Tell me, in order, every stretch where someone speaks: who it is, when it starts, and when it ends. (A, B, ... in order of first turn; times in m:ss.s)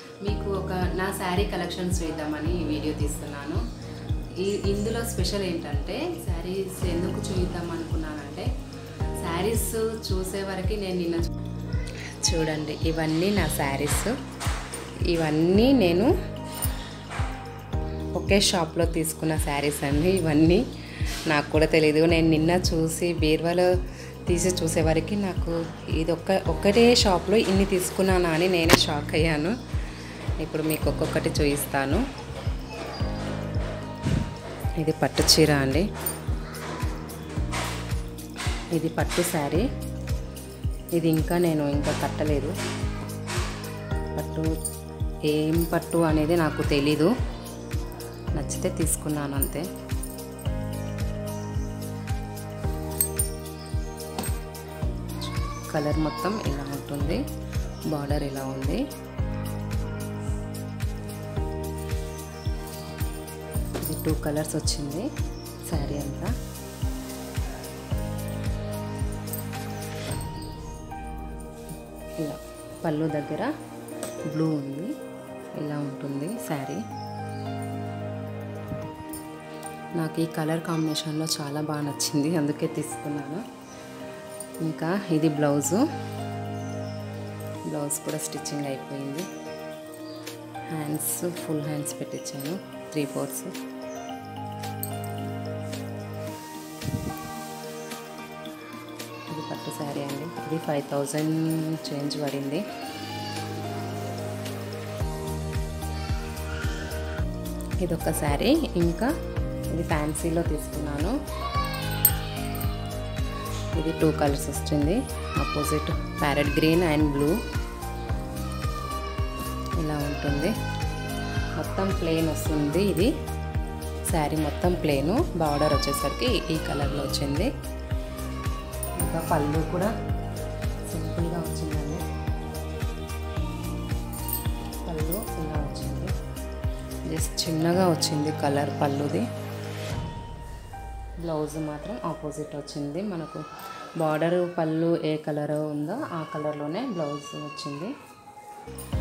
0:00.2-0:03.6 A
0:04.4-0:08.5 A
0:09.2-0:11.3 A
0:12.2-0:14.2 A
0:15.0-0:16.1 A
0:18.1-0:29.6 A
0:30.4-0:32.0 A
0:34.8-0:35.9 A
0:38.7-0:39.7 A
0:40.9-0:42.6 A
0:44.1-0:44.5 A
0:45.3-0:47.1 A
0:48.3-0:49.7 A
0:55.2-0:57.2 A
0:57.9-0:58.8 A
1:03.8-1:05.1 A
1:05.7-1:06.3 A
1:12.2-1:13.5 A
1:14.3-1:14.9 A
1:15.6-1:16.8 A
1:20.0-1:23.4 A
1:24.6-1:25.8 A
1:27.7-1:29.3 A
1:30.7-1:33.5 A
1:39.3-1:42.6 A
1:47.8-1:49.1 A
1:49.7-1:51.1 A
1:53.7-1:57.4 A
1:59.8-2:00.5 A
2:01.6-2:03.1 A
2:04.1-2:07.5 A
2:09.0-2:09.9 A
2:10.9-2:12.0 A
2:14.8-2:16.1 A
2:17.1-2:19.3 A
2:21.2-2:23.4 A
2:24.0-2:27.9 A